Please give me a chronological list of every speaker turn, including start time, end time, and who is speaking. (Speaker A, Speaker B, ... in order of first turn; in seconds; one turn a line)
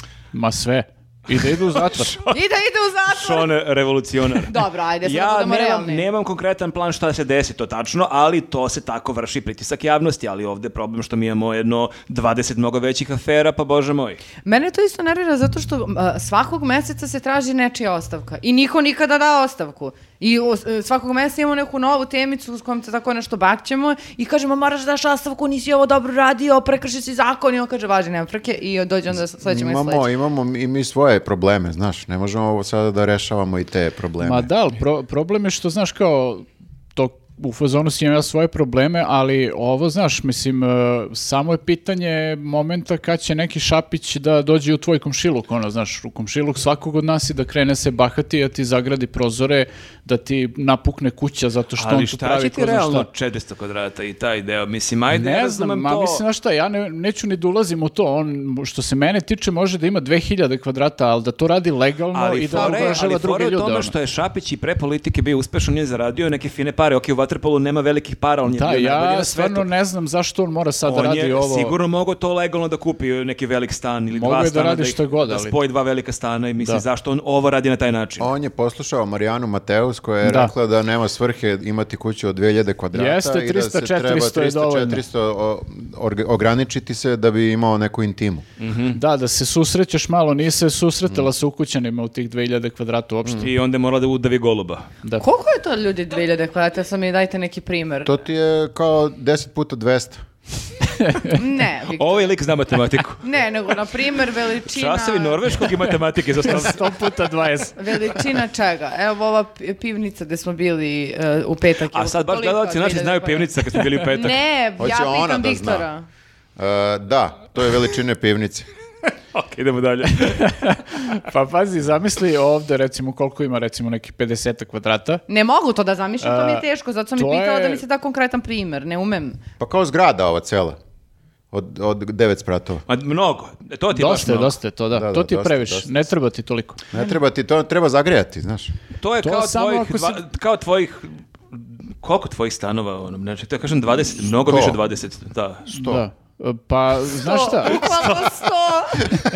Speaker A: 0.3-2.2
Speaker B: 1.7-2.4
Speaker C: 2.3-3.5
Speaker B: 3.1-14.2
Speaker C: 4.4-6.1
Speaker C: 14.4-30.1
Speaker D: 29.1-34.5
Speaker A: 34.2-53.1
Speaker B: 51.8-56.2
Speaker A: 55.1-63.9
Speaker B: 62.1-69.7
Speaker A: 68.5-71.8
Speaker B: 70.9-78.3
Speaker A: 74.1-75.6
Speaker D: 78.2-88.5
Speaker A: 80.2-80.5
Speaker A: 82.9-85.0
Speaker B: 88.6-89.0
Speaker A: 88.9-93.5
Speaker B: 93.4-94.9
Speaker C: 95.2-98.1
Speaker D: 98.0-100.2
Speaker A: 100.8-101.4
Speaker C: 101.3-102.4
Speaker B: 102.0-103.2
Speaker C: 103.2-105.7
Speaker B: 104.6-106.9
Speaker A: 106.4-108.1
Speaker C: 107.8-116.1
Speaker B: 111.9-114.4
Speaker D: 114.8-115.9
Speaker D: 116.6-118.7
Speaker B: 119.3-120.6
Speaker A: 120.2-125.2
Speaker C: 125.3-129.4
Speaker A: 126.2-126.7
Speaker A: 127.2-127.8
Speaker D: 129.6-130.8
Speaker D: 131.5-132.8
Speaker B: 132.9-134.6
Speaker A: 133.9-136.8
Speaker D: 134.9-135.9
Speaker D: 136.9-138.7
Speaker B: 139.0-145.7
Speaker A: 139.2-140.2
Speaker D: 144.4-144.8
Speaker D: 145.7-146.0
Speaker A: 145.7-148.0
Speaker C: 147.2-149.2
Speaker B: 147.8-148.4